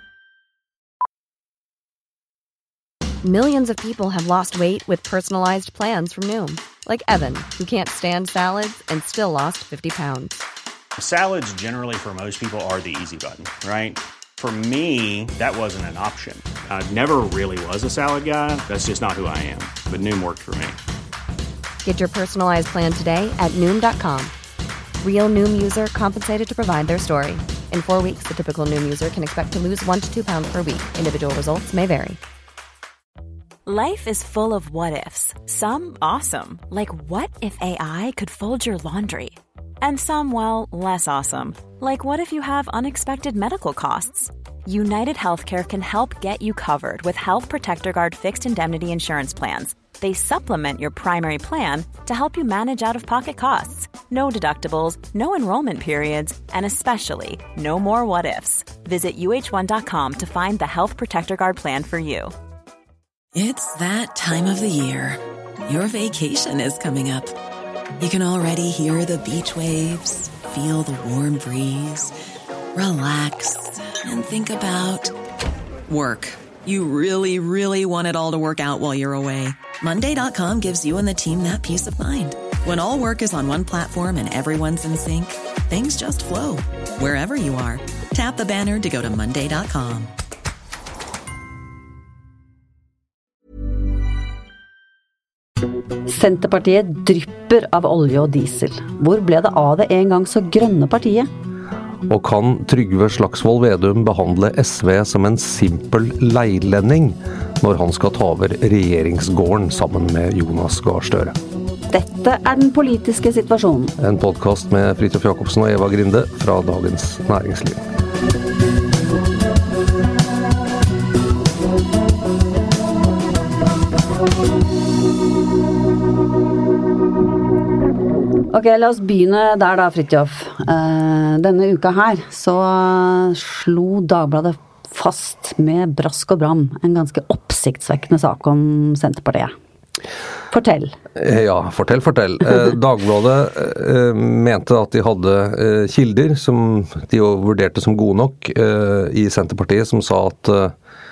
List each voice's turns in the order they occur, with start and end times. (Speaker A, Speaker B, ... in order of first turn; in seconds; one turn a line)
Speaker A: 3.2-10.4
Speaker B: 11.0-20.8
Speaker A: 21.8-24.3
Speaker A: 25.0-32.2
Speaker C: 33.6-62.3
Speaker D: 63.3-67.3
Speaker D: 68.0-72.1
Speaker D: 72.7-75.1
Speaker D: 75.9-90.1
Speaker E: 96.1-101.3
Speaker F: 102.1-111.4
Speaker E: 111.9-113.9
Speaker F: 114.0-117.8
Speaker E: 128.5-139.5
Speaker E: 140.5-140.9
Speaker F: 141.1-150.7